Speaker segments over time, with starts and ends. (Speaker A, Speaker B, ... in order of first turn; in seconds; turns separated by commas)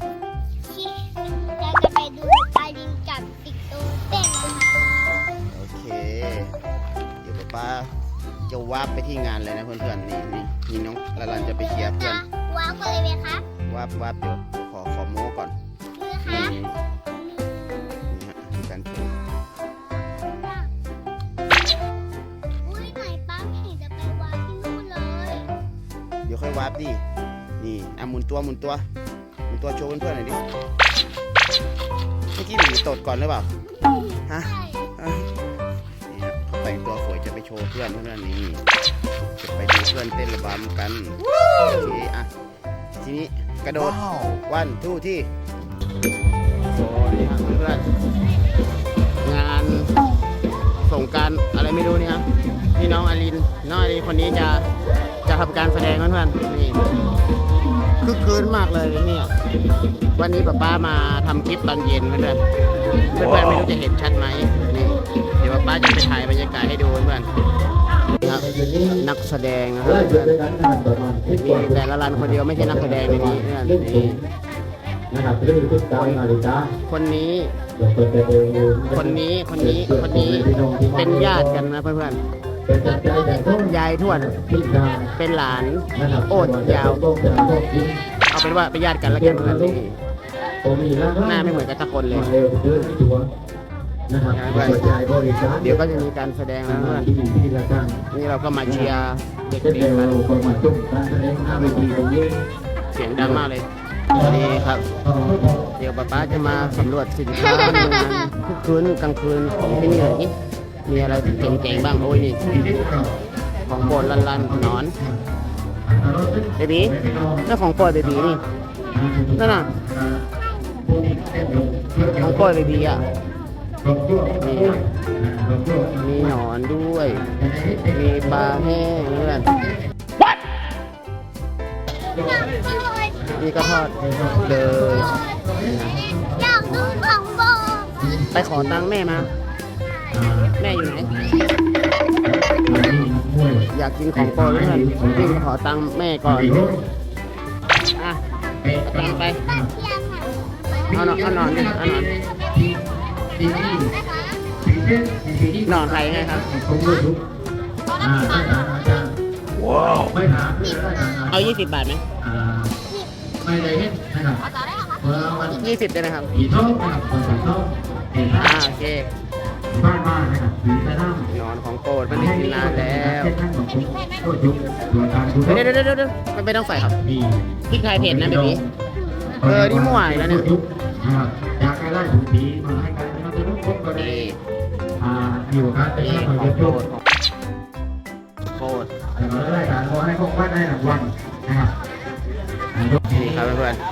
Speaker A: 0.6-5.2, Speaker B: 5.5-6.5, Speaker B: 7.2-7.9, Speaker B: 8.5-12.2, Speaker A: 11.2-13.5, Speaker B: 13.6-15.5, Speaker A: 15.9-18.1, Speaker B: 16.2-16.8, Speaker B: 18.1-19.1, Speaker A: 20.1-20.7, Speaker A: 22.6-25.5, Speaker B: 26.2-27.0, Speaker B: 27.6-28.9, Speaker B: 29.5-30.4, Speaker B: 32.4-33.5, Speaker A: 33.8-34.9, Speaker B: 34.2-35.3, Speaker B: 36.1-38.6, Speaker B: 39.4-42.3, Speaker B: 42.9-45.3, Speaker B: 46.7-47.8, Speaker B: 49.2-49.9, Speaker B: 50.9-54.6, Speaker B: 55.2-56.8, Speaker B: 58.0-59.3, Speaker B: 60.1-62.4, Speaker B: 63.1-67.3, Speaker C: 68.2-69.1, Speaker B: 69.0-70.4, Speaker C: 69.8-74.2, Speaker B: 71.3-74.2, Speaker C: 75.1-76.7, Speaker B: 75.9-76.2, Speaker B: 76.8-77.5, Speaker C: 77.8-81.7, Speaker B: 78.9-82.2, Speaker C: 82.7-85.1, Speaker B: 83.3-84.3, Speaker B: 85.1-87.0, Speaker C: 85.8-88.0, Speaker B: 88.3-90.0, Speaker C: 89.0-89.8, Speaker C: 90.6-93.3, Speaker B: 91.2-92.3, Speaker C: 94.1-96.0, Speaker B: 94.3-94.8, Speaker B: 95.6-97.1, Speaker C: 96.6-98.0, Speaker B: 98.1-100.3, Speaker C: 98.6-98.9, Speaker C: 99.6-102.4, Speaker B: 101.5-102.0, Speaker B: 102.9-104.8, Speaker C: 103.2-103.5, Speaker C: 104.1-106.9, Speaker B: 105.8-110.3, Speaker C: 109.4-110.2, Speaker B: 110.8-112.4, Speaker C: 110.9-113.1, Speaker B: 113.7-114.9, Speaker C: 113.7-115.2, Speaker C: 115.8-118.4, Speaker B: 116.6-116.9, Speaker B: 117.5-118.4, Speaker C: 118.9-120.2, Speaker B: 119.3-119.7, Speaker C: 120.8-123.2, Speaker B: 122.1-123.0, Speaker C: 123.8-126.4, Speaker B: 124.4-124.8, Speaker B: 126.0-127.2, Speaker C: 127.0-129.9, Speaker B: 127.9-129.5, Speaker C: 132.1-132.6, Speaker A: 132.6-133.1, Speaker C: 133.1-137.1, Speaker B: 133.3-136.0, Speaker A: 136.4-138.0, Speaker C: 138.0-139.3, Speaker B: 138.3-139.3, Speaker C: 140.1-141.4, Speaker B: 140.6-141.1, Speaker C: 142.2-145.4, Speaker B: 143.7-146.7, Speaker C: 146.2-146.8, Speaker C: 148.6-149.7, Speaker B: 148.9-149.4, Speaker A: 149.8-150.6, Speaker C: 150.9-152.8, Speaker B: 150.9-152.1, Speaker C: 153.3-153.9, Speaker C: 154.6-157.2, Speaker B: 155.7-156.5, Speaker C: 157.9-159.1, Speaker B: 159.7-160.0, Speaker C: 159.9-161.5, Speaker B: 161.3-162.0, Speaker C: 162.2-162.7, Speaker C: 163.4-164.4, Speaker C: 165.0-165.6, Speaker B: 165.5-166.3, Speaker C: 166.3-168.6, Speaker B: 168.4-169.1, Speaker C: 169.7-171.3, Speaker B: 171.3-173.3, Speaker C: 172.1-175.7, Speaker B: 175.4-177.0, Speaker C: 176.9-178.7, Speaker B: 177.7-178.6, Speaker C: 179.4-184.3, Speaker B: 179.4-180.5, Speaker B: 183.9-184.4, Speaker C: 185.0-186.8, Speaker B: 185.9-187.0, Speaker B: 188.5-188.9, Speaker C: 189.1-191.7, Speaker C: 192.7-193.5, Speaker B: 193.1-193.8